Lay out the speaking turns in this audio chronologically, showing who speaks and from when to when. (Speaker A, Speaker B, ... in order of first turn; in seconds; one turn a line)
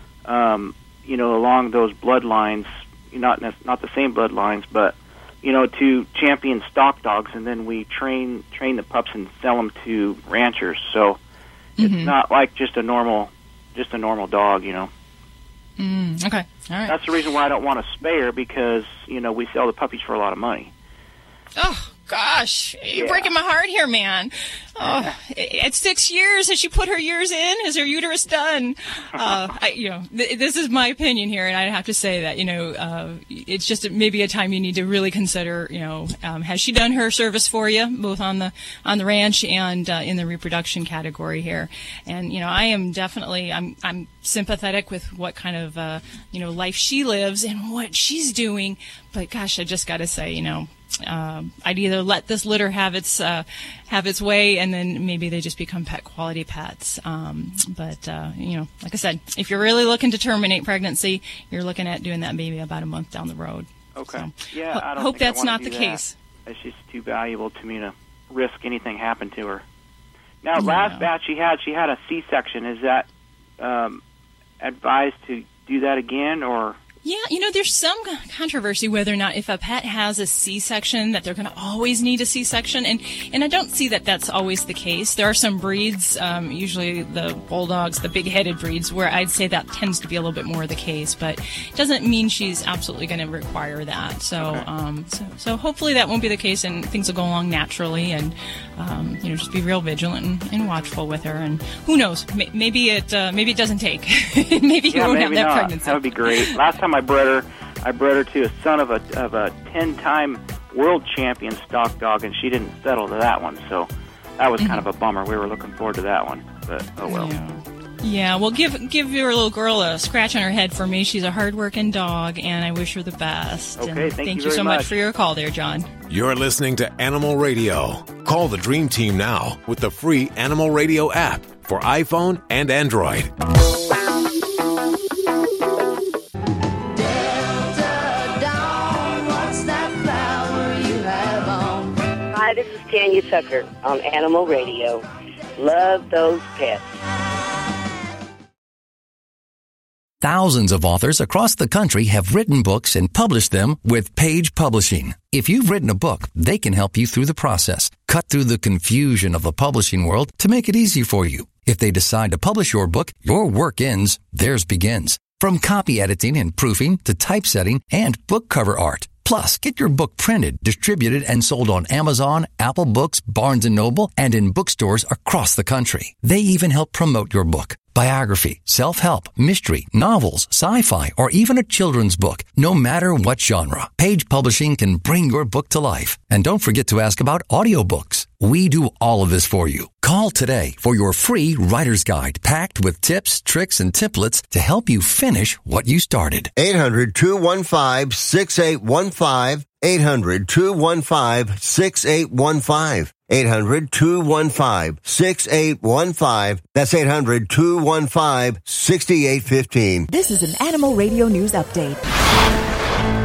Speaker A: 0.3-11.2
Speaker B: 11.8-12.1
Speaker A: 11.8-14.9
Speaker B: 15.8-17.0
Speaker A: 16.9-20.7
Speaker B: 21.6-66.1
Speaker A: 22.9-23.3
Speaker A: 24.8-25.1
Speaker A: 64.0-69.6
Speaker A: 70.4-73.1
Speaker B: 70.6-71.1
Speaker A: 73.6-74.0
Speaker A: 74.6-76.8
Speaker B: 77.0-106.6
Speaker A: 94.4-94.7
Speaker A: 104.9-117.3
Speaker B: 114.6-114.9
Speaker B: 117.1-125.9
Speaker A: 123.8-125.0
Speaker C: 126.1-133.3
Speaker D: 142.3-145.0
Speaker D: 145.6-146.9
Speaker E: 150.2-196.5
Speaker F: 196.6-210.1
Speaker G: 210.1-212.0